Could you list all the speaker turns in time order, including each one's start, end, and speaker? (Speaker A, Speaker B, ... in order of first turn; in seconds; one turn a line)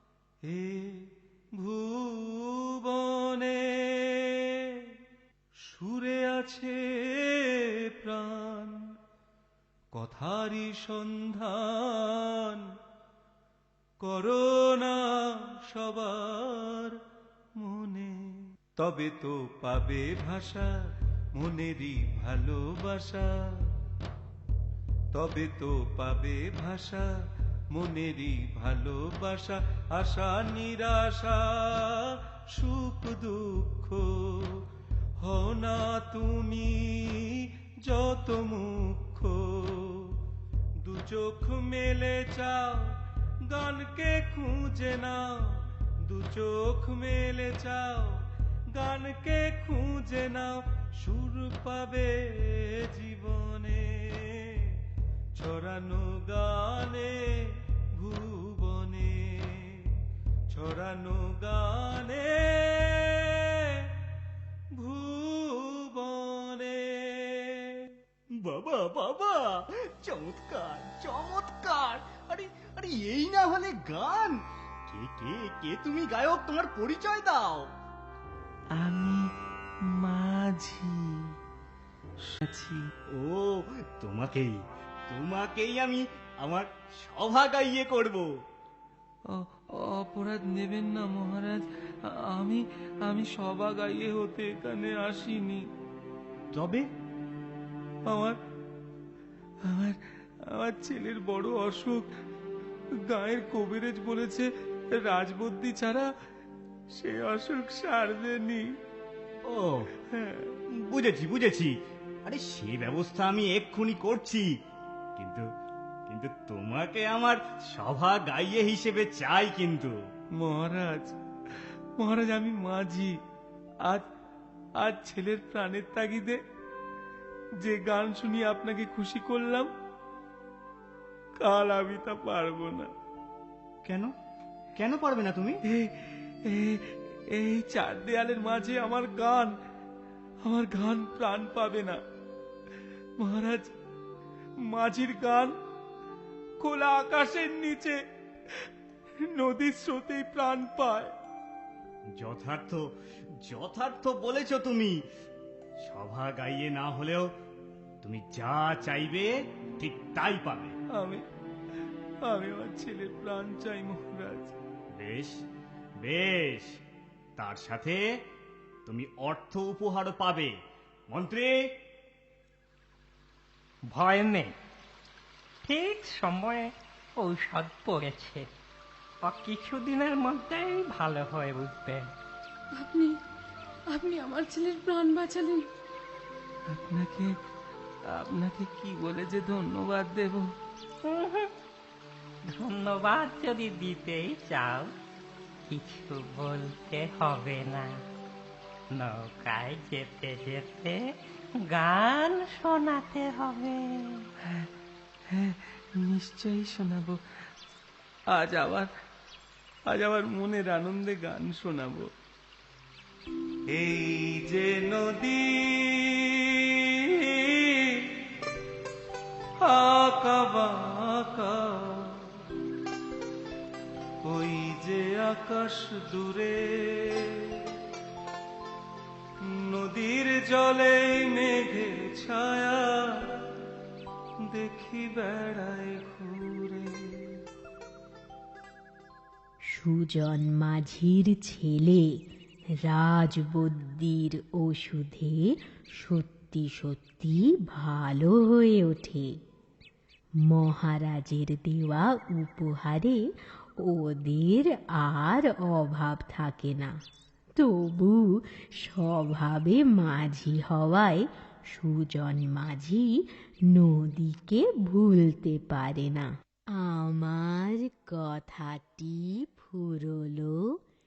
Speaker A: 0.5-5.0
Speaker A: 5.6-8.8
Speaker A: 9.9-12.7
Speaker A: 14.0-17.0
Speaker A: 17.6-20.7
Speaker A: 21.4-23.6
Speaker A: 25.1-27.1
Speaker A: 27.7-34.6
Speaker A: 35.2-40.2
Speaker A: 40.8-48.2
Speaker A: 48.7-54.8
Speaker A: 55.4-60.0
Speaker A: 60.5-63.9
Speaker A: 64.8-67.9
Speaker B: 68.4-77.7
Speaker A: 78.8-79.3
Speaker A: 80.0-81.2
Speaker A: 82.3-82.8
Speaker B: 83.2-84.5
Speaker B: 85.1-88.3
Speaker A: 89.9-91.7
Speaker A: 92.3-95.6
Speaker B: 96.5-96.8
Speaker A: 98.1-98.4
Speaker A: 99.7-100.0
Speaker A: 100.5-102.0
Speaker A: 103.1-104.5
Speaker A: 105.0-106.1
Speaker A: 107.0-108.6
Speaker B: 109.5-109.9
Speaker B: 110.8-111.7
Speaker B: 112.3-114.5
Speaker B: 115.2-115.4
Speaker B: 116.1-119.9
Speaker A: 120.4-121.2
Speaker A: 122.0-123.1
Speaker A: 124.8-126.4
Speaker A: 127.6-129.7
Speaker A: 131.4-132.9
Speaker B: 133.8-134.1
Speaker B: 134.8-135.6
Speaker A: 135.7-139.5
Speaker A: 140.4-142.0
Speaker A: 143.2-143.7
Speaker A: 144.7-145.5
Speaker A: 146.6-148.0
Speaker A: 149.4-151.1
Speaker B: 152.2-152.8
Speaker B: 153.4-154.9
Speaker B: 155.8-157.3
Speaker B: 158.0-160.8
Speaker A: 161.0-161.2
Speaker A: 162.3-164.6
Speaker B: 165.0-165.3
Speaker B: 166.0-166.7
Speaker B: 167.4-168.0
Speaker B: 168.9-170.5
Speaker B: 171.1-171.5
Speaker C: 173.9-174.5
Speaker C: 175.7-178.5
Speaker C: 179.2-182.1
Speaker D: 182.8-183.1
Speaker D: 183.9-185.7
Speaker A: 186.7-187.3
Speaker A: 188.1-190.5
Speaker C: 191.0-191.5
Speaker C: 192.6-194.9
Speaker C: 195.7-198.0
Speaker C: 198.9-201.0
Speaker C: 201.6-204.2
Speaker A: 205.3-207.2
Speaker A: 208.3-208.9
Speaker A: 209.9-212.1
Speaker A: 213.7-218.1
Speaker A: 219.6-222.4
Speaker A: 224.3-227.7
Speaker A: 229.5-233.4
Speaker A: 234.5-237.4
Speaker E: 239.7-242.1
Speaker E: 242.8-249.4
Speaker E: 250.5-253.2
Speaker E: 253.8-256.9
Speaker E: 257.6-270.7